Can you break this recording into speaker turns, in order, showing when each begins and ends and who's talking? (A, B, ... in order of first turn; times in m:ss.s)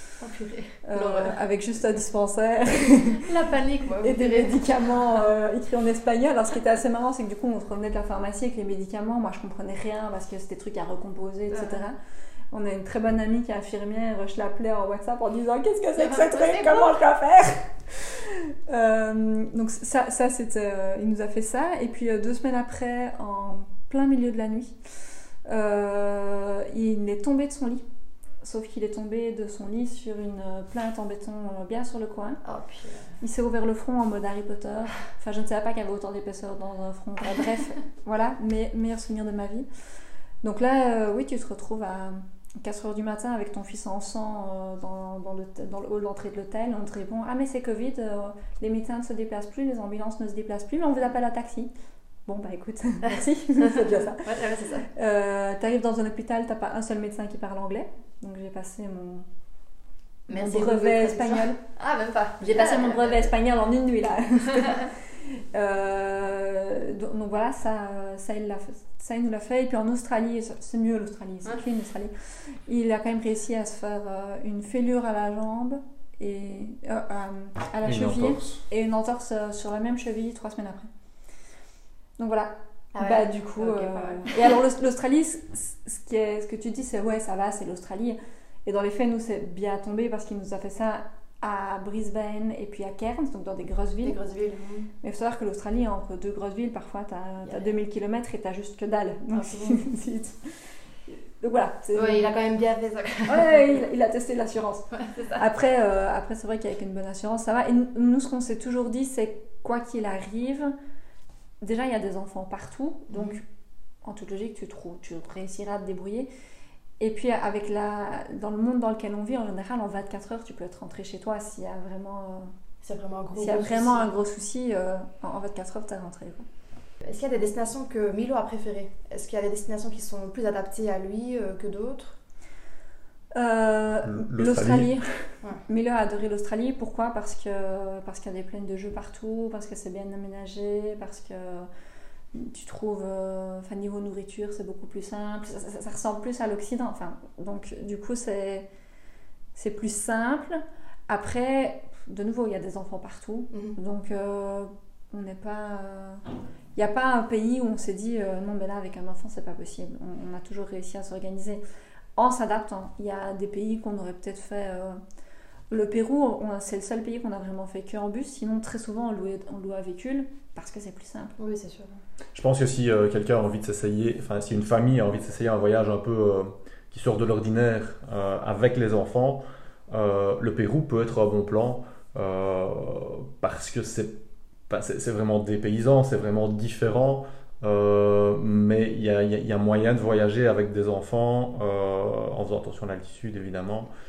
0:00.2-0:01.4 A
0:00.8-0:03.3 B
0:03.2-0:04.6 A
0:04.0-0:12.0 B
0:11.5-0:11.8 A
0:12.5-0:24.8 B
0:16.0-0:17.0 A
0:25.4-0:27.8 B
0:28.4-0:32.4 B
0:32.4-0:33.2 A
0:33.2-0:39.7 B
0:40.4-0:51.7 B
0:52.2-0:54.3 B
0:53.1-0:54.9 A
0:54.9-0:59.2 B
1:00.3-1:03.3 A
1:00.3-1:01.6 B
1:02.4-1:20.9 B
1:17.8-1:18.6 C
1:22.2-1:34.2 B
1:22.9-1:24.4 A
1:34.0-1:34.9 A
1:35.0-1:40.5 B
1:37.4-1:37.7 A
1:39.3-1:39.9 A
1:41.1-1:42.2 B
1:41.9-1:43.8 A
1:43.3-1:50.7 B
1:44.9-1:45.4 A
1:51.6-1:53.4 B
1:53.1-1:53.4 A
1:54.0-1:56.3 B
1:57.0-2:02.5 B
2:02.8-2:04.1 A
2:03.3-2:06.4 B
2:07.0-2:12.2 A
2:13.3-2:21.7 B
2:14.0-2:15.0 C
2:22.3-2:28.6 B
2:29.5-2:36.2 B
2:33.5-2:33.8 A
2:36.8-2:41.6 B
2:42.2-2:45.0 B
2:45.7-2:51.4 B
2:51.4-2:52.0 A
2:52.3-3:13.9 C